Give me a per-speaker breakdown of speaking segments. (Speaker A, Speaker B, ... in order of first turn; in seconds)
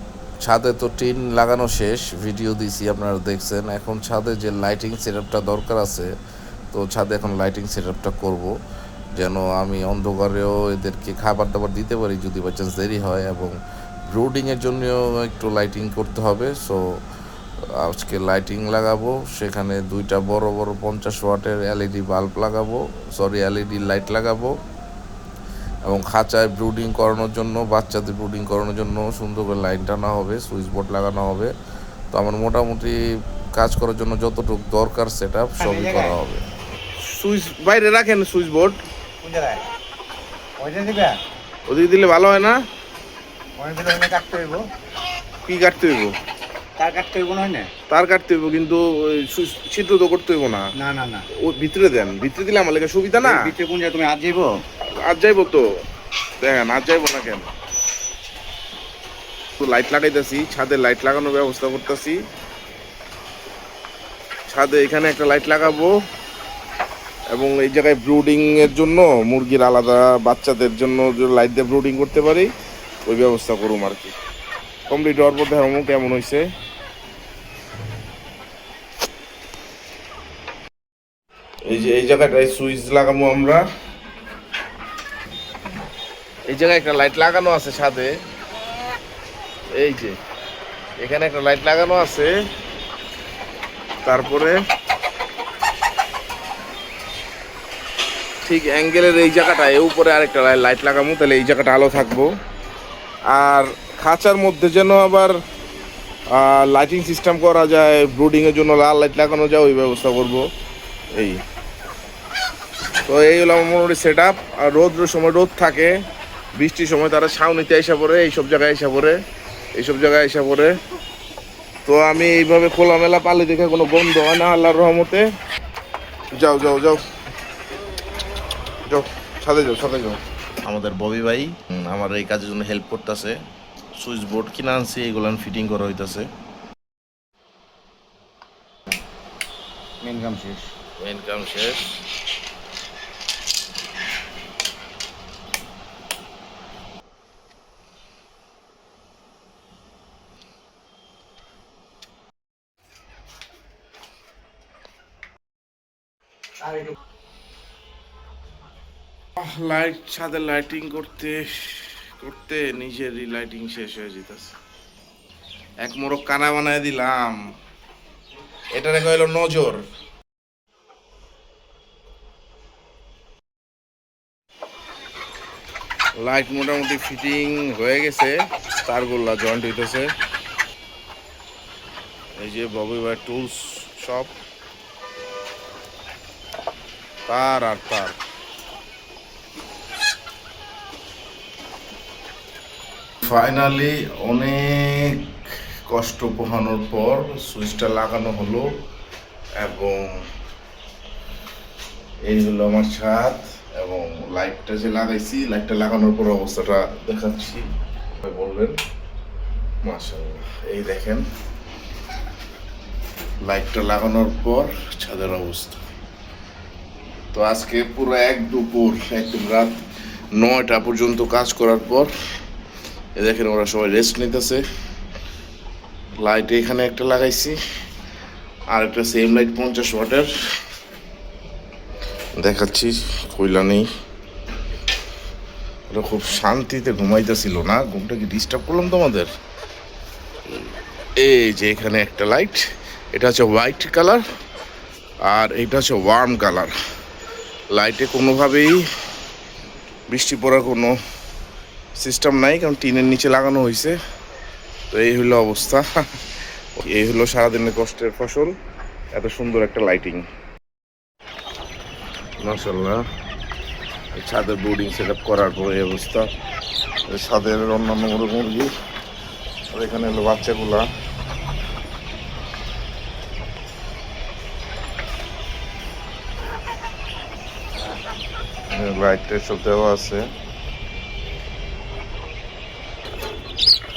Speaker A: 0.4-6.1, 6.7-8.5, 9.2-13.6, 14.1-16.8, 17.8-24.5, 25.8-31.5, 32.1-32.9, 33.5-36.4, 37.0-38.8, 41.7-42.6, 45.5-46.1, 47.9-50.6, 51.4-53.4, 55.0-55.6, 56.4-57.5, 59.6-62.2, 64.5-65.9, 67.3-72.5, 73.0-74.1, 74.9-76.4, 81.7-83.6, 86.5-88.1, 89.7-90.2, 91.0-92.3, 94.0-94.6, 98.5-102.3, 103.3-105.3, 106.3-110.5, 111.1-111.4, 113.1-116.0, 116.5-119.2, 119.8-120.8, 121.8-125.2, 126.3-127.0, 128.8-133.4, 133.9-136.3, 141.0-142.0, 159.4-164.5, 165.8-167.4, 168.7-169.8, 176.2-180.1, 182.4-184.3, 187.3-188.2, 193.2-195.3, 195.9-198.7, 199.6-200.2, 202.2-208.8, 209.8-211.2, 213.4-215.8, 217.3-219.8, 220.3-222.1, 223.2-224.6, 226.2-227.6, 228.7-230.3, 232.3-233.8, 235.9-239.3, 240.6-244.2, 245.3-246.7, 247.7-248.8, 250.1-250.9, 252.0-254.0, 254.9-255.8, 256.8-258.5, 259.1-260.2, 262.4-263.0, 264.1-266.3, 267.1-268.7, 269.7-270.9, 278.7-280.2
Speaker B: 35.6-36.2, 39.2-39.6, 40.6-41.1, 43.6-44.6, 46.8-47.7, 50.8-51.2, 53.2-54.5, 140.0-140.7